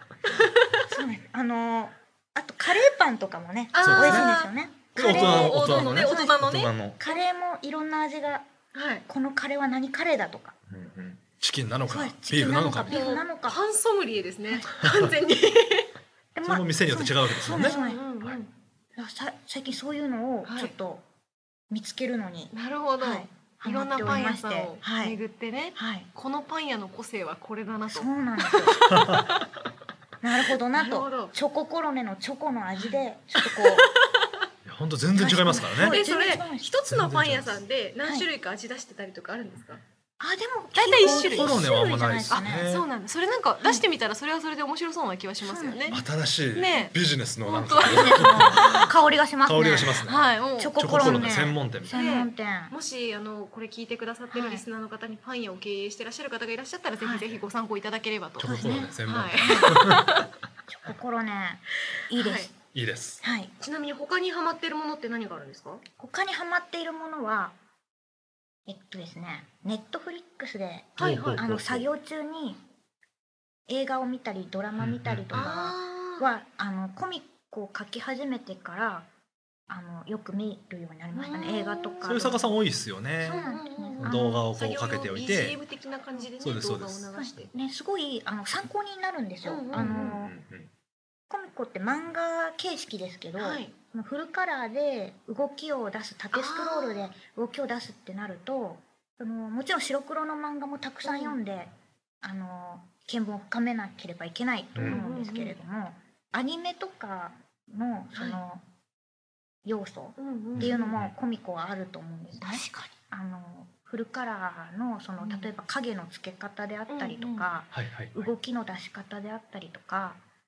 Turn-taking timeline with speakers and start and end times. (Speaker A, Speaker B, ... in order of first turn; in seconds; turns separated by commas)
Speaker A: 0.2-0.8, Speaker B: 0.9-6.4, Speaker A: 3.7-7.2, Speaker C: 3.8-4.3, Speaker C: 5.0-7.0, Speaker B: 7.0-8.4, Speaker A: 8.7-9.0, Speaker B: 9.1-10.5, Speaker C: 10.7-13.0, Speaker B: 11.9-13.6, Speaker A: 12.9-15.9, Speaker B: 16.4-18.0, Speaker C: 16.4-18.4, Speaker A: 17.5-18.5, Speaker B: 18.9-21.0, Speaker A: 20.4-20.7, Speaker B: 21.7-25.2, Speaker A: 22.5-29.4, Speaker B: 25.8-26.1, Speaker B: 27.9-28.9, Speaker C: 28.9-29.2, Speaker B: 30.2-33.9, Speaker A: 30.8-31.3, Speaker A: 32.8-34.3, Speaker C: 34.6-36.0, Speaker B: 35.1-36.7, Speaker A: 35.8-39.8, Speaker C: 36.9-37.6, Speaker B: 40.2-42.7, Speaker A: 40.7-41.6, Speaker C: 41.0-42.9, Speaker A: 42.3-46.0, Speaker B: 45.4-46.0, Speaker C: 45.9-48.8, Speaker A: 46.5-48.9, Speaker B: 47.8-50.0, Speaker C: 49.5-50.2, Speaker A: 50.0-51.1, Speaker B: 50.6-52.7, Speaker C: 50.8-52.0, Speaker A: 51.9-60.3, Speaker B: 54.3-54.6, Speaker B: 57.0-57.3, Speaker C: 58.4-60.1, Speaker B: 58.4-59.7, Speaker B: 60.7-62.5, Speaker A: 62.1-62.5, Speaker C: 62.7-63.2, Speaker B: 63.2-63.5, Speaker A: 63.6-65.8, Speaker B: 66.0-67.5, Speaker B: 68.7-72.6, Speaker A: 71.0-71.4, Speaker C: 71.0-71.9, Speaker B: 73.7-79.1, Speaker C: 74.8-75.3, Speaker A: 75.3-76.3, Speaker B: 79.7-82.5, Speaker A: 81.1-82.3, Speaker C: 82.0-83.5, Speaker B: 83.2-84.3, Speaker A: 83.2-87.5, Speaker C: 84.0-85.6, Speaker C: 86.4-87.1, Speaker B: 87.2-90.3, Speaker A: 89.4-90.2, Speaker C: 89.7-90.7, Speaker B: 91.3-101.7, Speaker A: 93.4-93.7, Speaker A: 96.3-97.1, Speaker A: 101.0-101.4, Speaker B: 102.2-108.6, Speaker C: 104.8-105.0, Speaker A: 104.8-105.6, Speaker B: 109.6-120.2, Speaker A: 110.2-111.0, Speaker C: 110.5-111.1, Speaker A: 112.4-112.9, Speaker A: 115.2-115.5, Speaker A: 116.9-117.5, Speaker C: 117.7-118.3